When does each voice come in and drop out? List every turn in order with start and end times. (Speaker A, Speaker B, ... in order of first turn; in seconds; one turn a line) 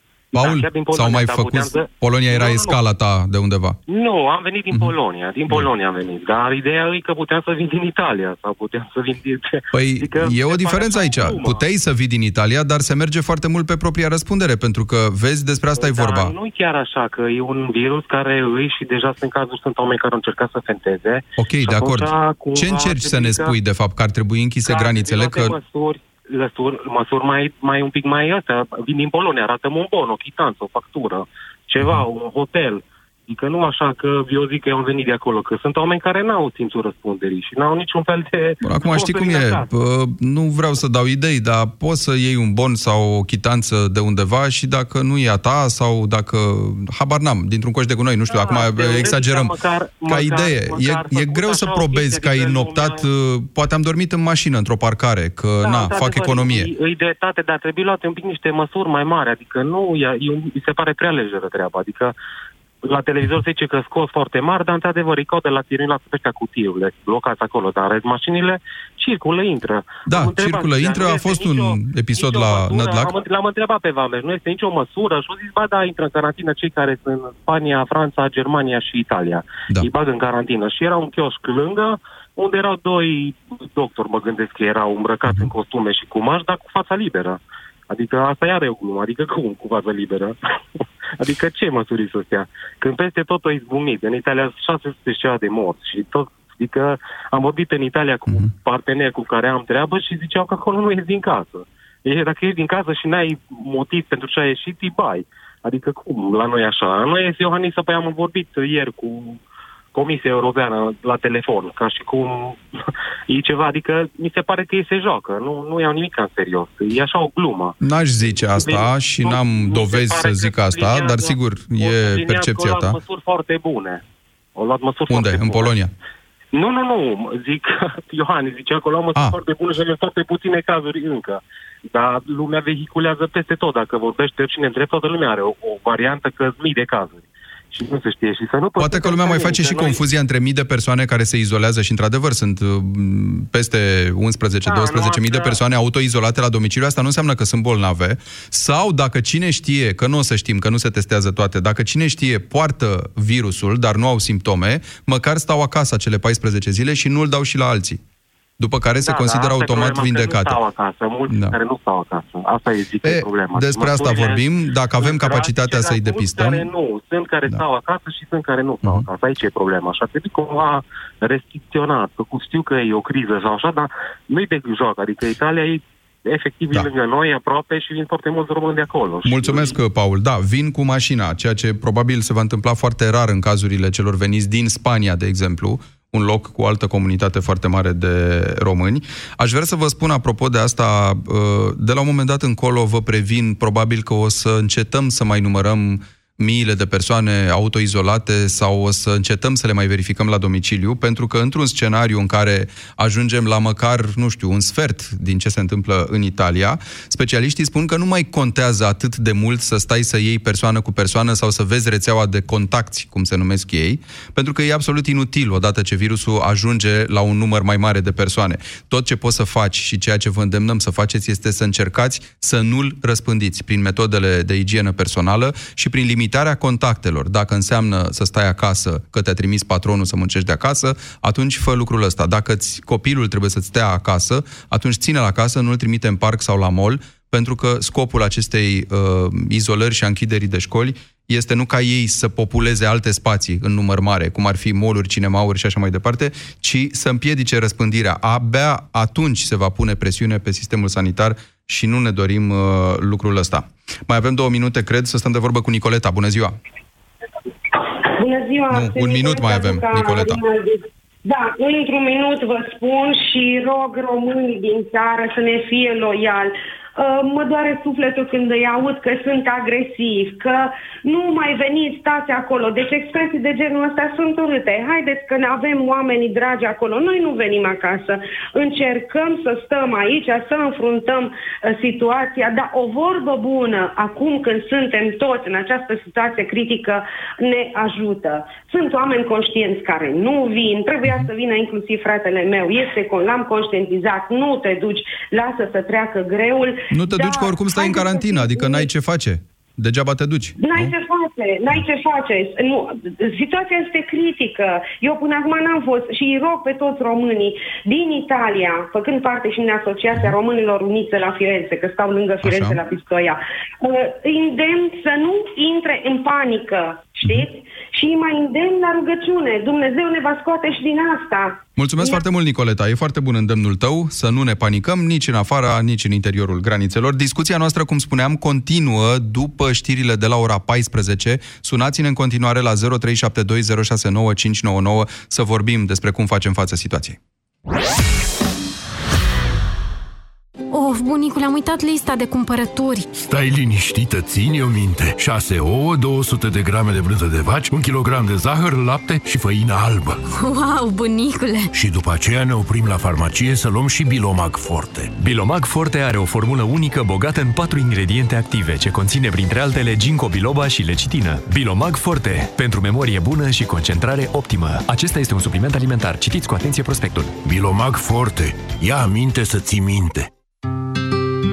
Speaker A: 0.3-2.8
Speaker B: 0.3-3.8
Speaker A: 3.9-11.7
Speaker B: 9.7-16.3
Speaker A: 15.8-23.6
Speaker B: 21.4-25.6
Speaker A: 24.6-39.7
Speaker B: 38.6-49.5
Speaker A: 48.3-53.1
Speaker B: 50.1-56.7
Speaker A: 55.6-62.1
Speaker A: 62.8-90.3
Speaker B: 70.1-73.1
Speaker A: 91.2-109.4
Speaker A: 109.9-112.6
Speaker A: 113.3-117.8
Speaker B: 117.8-123.0
Speaker A: 118.3-124.0
Speaker A: 124.5-125.8
Speaker B: 125.1-125.9
Speaker A: 126.5-140.0
Speaker B: 138.8-158.0
Speaker A: 144.6-145.6
Speaker B: 158.6-160.6
Speaker A: 159.0-179.8
Speaker B: 161.3-161.5
Speaker B: 163.0-166.7
Speaker B: 179.2-256.5
Speaker C: 258.2-298.9
Speaker B: 258.7-260.4
Speaker B: 296.9-300.9
Speaker C: 300.6-322.2
Speaker B: 312.4-312.8
Speaker B: 317.2-317.5
Speaker B: 321.8-337.2
Speaker D: 340.7-343.1
Speaker E: 343.1-350.2
Speaker D: 350.3-351.7
Speaker E: 351.7-355.2
Speaker F: 355.2-367.4
Speaker E: 367.4-370.3